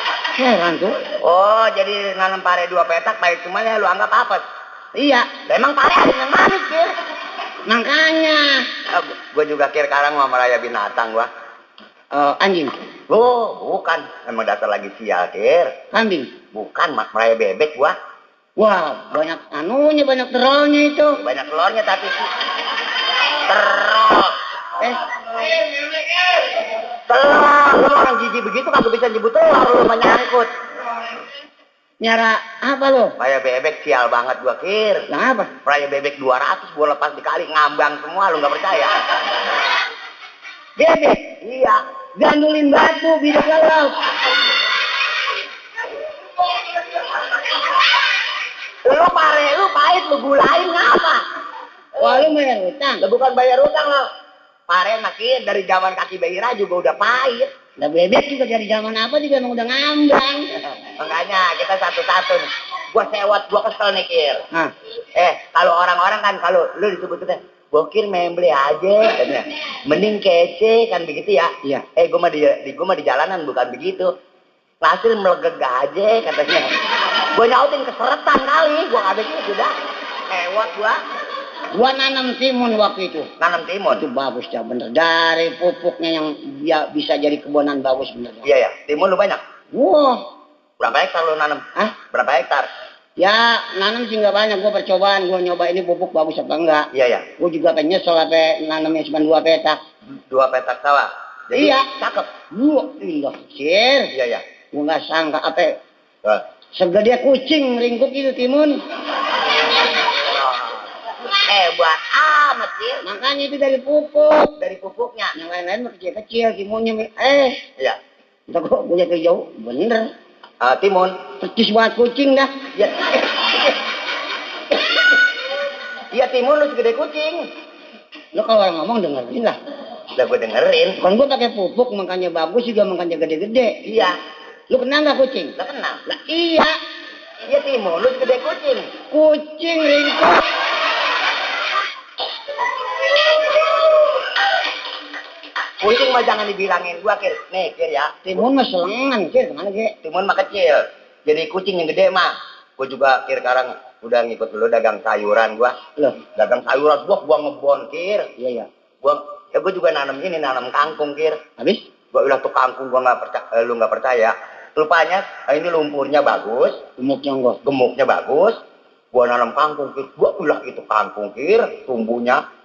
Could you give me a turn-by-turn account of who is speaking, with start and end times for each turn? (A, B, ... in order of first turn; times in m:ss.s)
0:00.3-0:01.0 A
0:01.2-0:04.4 B
0:05.0-0:05.3 A
0:05.4-0:06.9 B
0:07.7-0:08.6 A
0:08.9-0:11.3 B
0:12.1-0:12.8 A
0:13.1-0:15.8 B
0:15.9-0:16.3 A
0:16.5-0:18.0 B
0:18.6-0:21.2 A
0:21.1-0:22.3 B
0:23.2-0:24.4 B
0:25.4-0:30.5 B
0:32.0-0:33.1 A
0:33.2-0:35.0 B
0:35.1-0:35.5 A
0:35.6-0:39.0 B
0:40.8-0:41.3 A
0:41.4-0:41.8 B
0:42.2-0:44.0 A
0:46.4-0:47.6 B
0:48.8-0:51.2 B
0:52.0-0:53.0 A
0:53.0-0:54.0 B
0:54.7-0:57.5 B
0:57.8-1:00.6 A
1:00.9-1:04.4 B
1:05.1-1:14.1 B
1:14.8-1:19.7 B
1:20.3-1:21.0 B
1:21.7-1:23.3 A
1:23.4-1:24.0 B
1:23.9-1:28.5 A
1:28.4-1:29.4 B
1:29.7-1:30.2 A
1:30.8-1:32.7 B
1:33.2-1:36.9 A
1:36.9-1:37.3 B
1:37.4-1:39.8 A
1:40.3-1:42.3 B
1:41.5-1:41.9 A
1:42.5-1:44.1 A
1:44.1-1:44.4 B
1:44.7-1:45.8 A
1:46.8-1:48.8 A
1:49.3-1:53.0 B
1:53.0-1:54.5 A
1:54.6-1:55.3 B
1:55.3-1:57.6 A
1:58.5-2:00.1 A
2:00.6-2:01.2 B
2:01.4-2:02.6 A
2:02.7-2:03.8 B
2:06.1-2:07.4 B
2:08.3-2:09.6 A
2:10.1-2:11.0 B
2:11.0-2:13.8 A
2:13.8-2:14.2 B
2:14.7-2:15.5 A
2:15.6-2:16.0 B
2:16.1-2:16.7 A
2:17.4-2:18.9 B
2:19.1-2:20.4 A
2:25.8-2:28.1 B
2:28.2-2:29.9 A
2:30.0-2:38.3 B
2:38.4-2:38.7 A
2:39.0-2:41.4 B
2:41.6-2:41.8 A
2:42.1-2:46.8 B
2:47.0-2:47.6 A
2:47.6-2:48.6 B
2:49.1-2:52.4 B